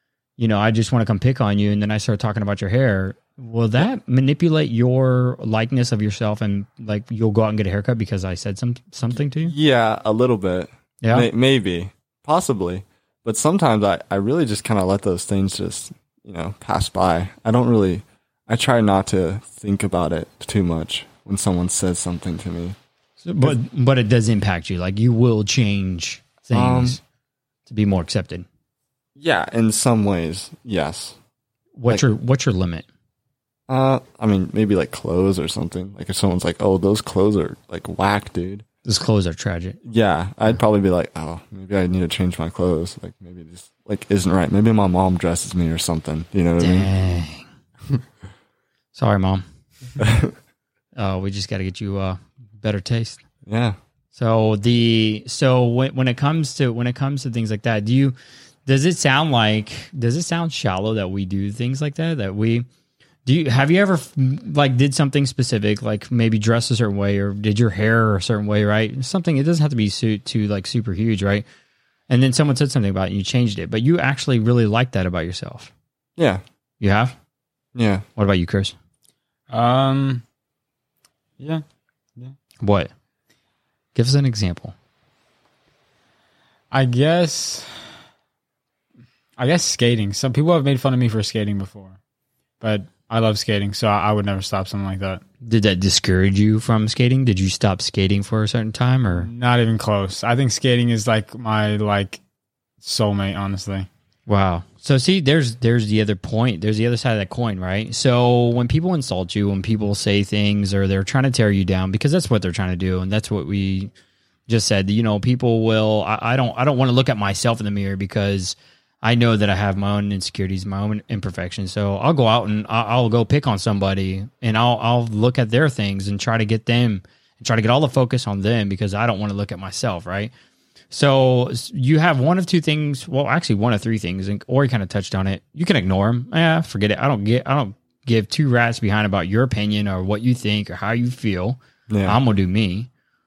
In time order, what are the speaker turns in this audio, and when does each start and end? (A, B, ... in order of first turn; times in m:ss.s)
0:00.4-0:09.5 A
0:09.4-0:22.8 B
0:11.0-0:11.3 A
0:23.2-0:27.0 A
0:26.5-0:27.0 B
0:27.7-0:28.5 A
0:29.2-0:31.2 B
0:31.8-0:32.9 A
0:33.7-0:38.6 B
0:38.8-0:39.8 A
0:39.8-0:46.9 B
0:46.6-0:47.5 A
0:48.9-0:49.4 A
0:50.0-0:50.3 B
0:50.9-0:53.2 A
0:53.4-0:53.8 B
0:54.1-1:02.6 A
1:03.2-1:11.4 A
1:12.1-1:15.7 A
1:16.2-1:16.4 B
1:16.8-1:17.1 A
1:17.7-1:18.0 B
1:18.2-1:18.7 A
1:19.5-1:20.2 C
1:22.6-1:22.9 A
1:23.9-1:24.7 A
1:26.7-1:27.7 C
1:29.4-1:32.0 C
1:32.6-1:35.2 C
1:35.4-1:39.3 A
1:39.1-1:42.2 C
1:42.8-1:43.9 C
1:44.3-1:53.9 A
1:54.5-2:10.3 A
2:10.9-2:22.9 A
2:21.9-2:22.2 B